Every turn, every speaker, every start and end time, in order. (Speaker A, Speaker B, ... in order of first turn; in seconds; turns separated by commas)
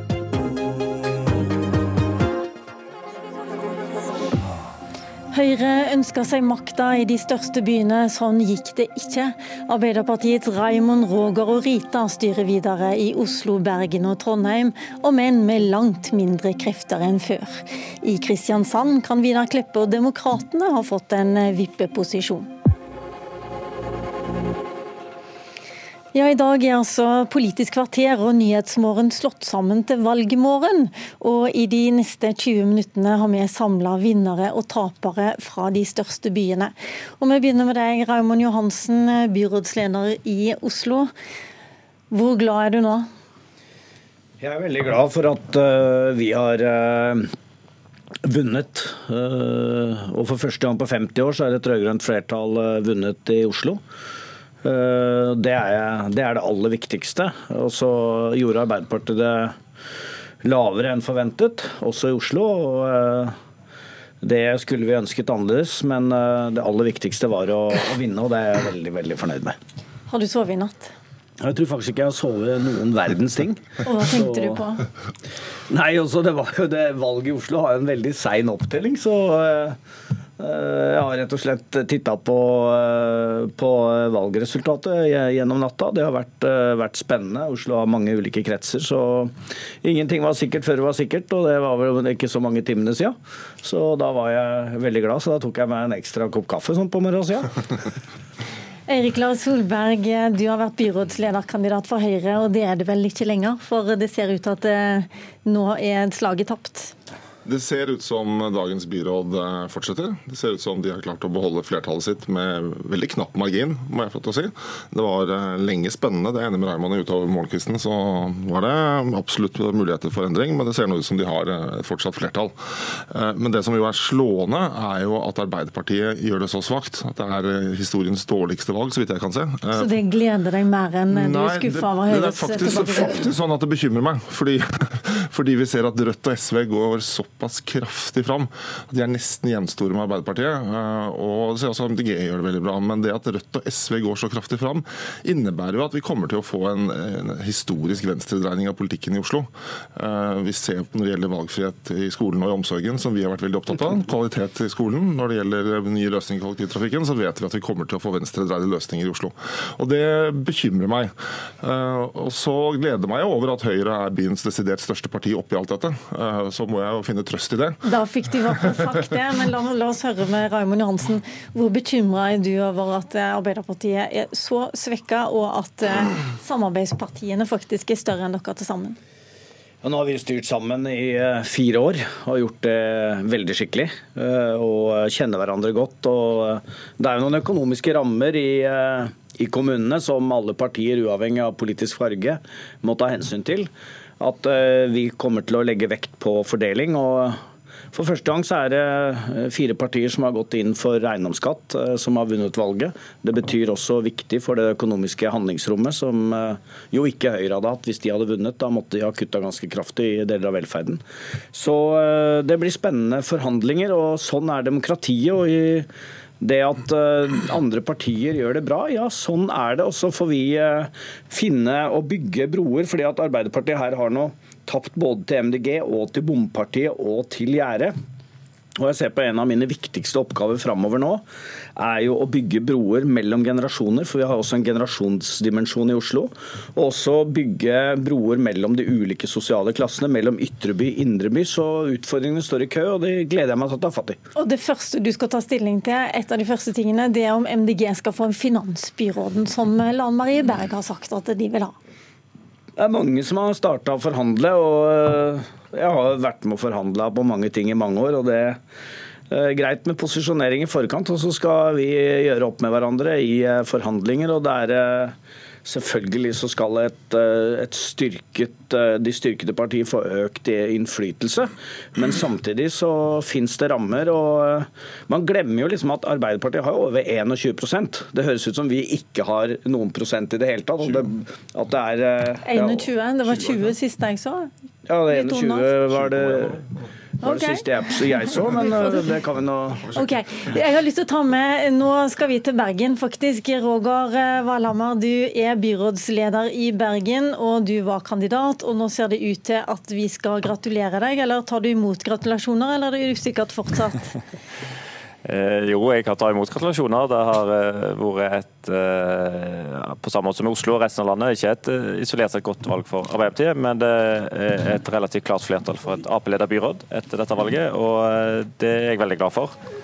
Speaker A: 5.3-22.5, Speaker A: 26.1-41.1, Speaker A: 42.1-43.1, Speaker B: 44.4-47.2, Speaker B: 48.2-53.8, Speaker B: 54.6-59.5, Speaker B: 60.4-63.3, Speaker B: 64.2-69.5, Speaker A: 70.1-70.9, Speaker B: 71.4-74.6, Speaker A: 73.8-74.8, Speaker B: 75.7-79.8, Speaker B: 80.4-97.5, Speaker A: 98.9-106.9, Speaker C: 107.4-122.5, Speaker C: 123.1-130.0, Speaker A: 129.7-133.3, Speaker C: 131.1-167.8, Speaker A: 167.8-179.0, Speaker B: 179.8-197.3, Speaker B: 197.9-211.0, Speaker B: 211.5-215.9, Speaker B: 216.4-227.9, Speaker B: 228.8-231.2, Speaker B: 231.8-244.2, Speaker A: 244.3-251.7, Speaker B: 252.8-258.6, Speaker B: 259.3-282.8, Speaker A: 282.4-284.5, Speaker B: 284.9-286.7, Speaker A: 285.1-285.7, Speaker A: 287.2-289.1, Speaker B: 287.2-289.9, Speaker A: 289.9-304.1, Speaker D: 305.2-319.5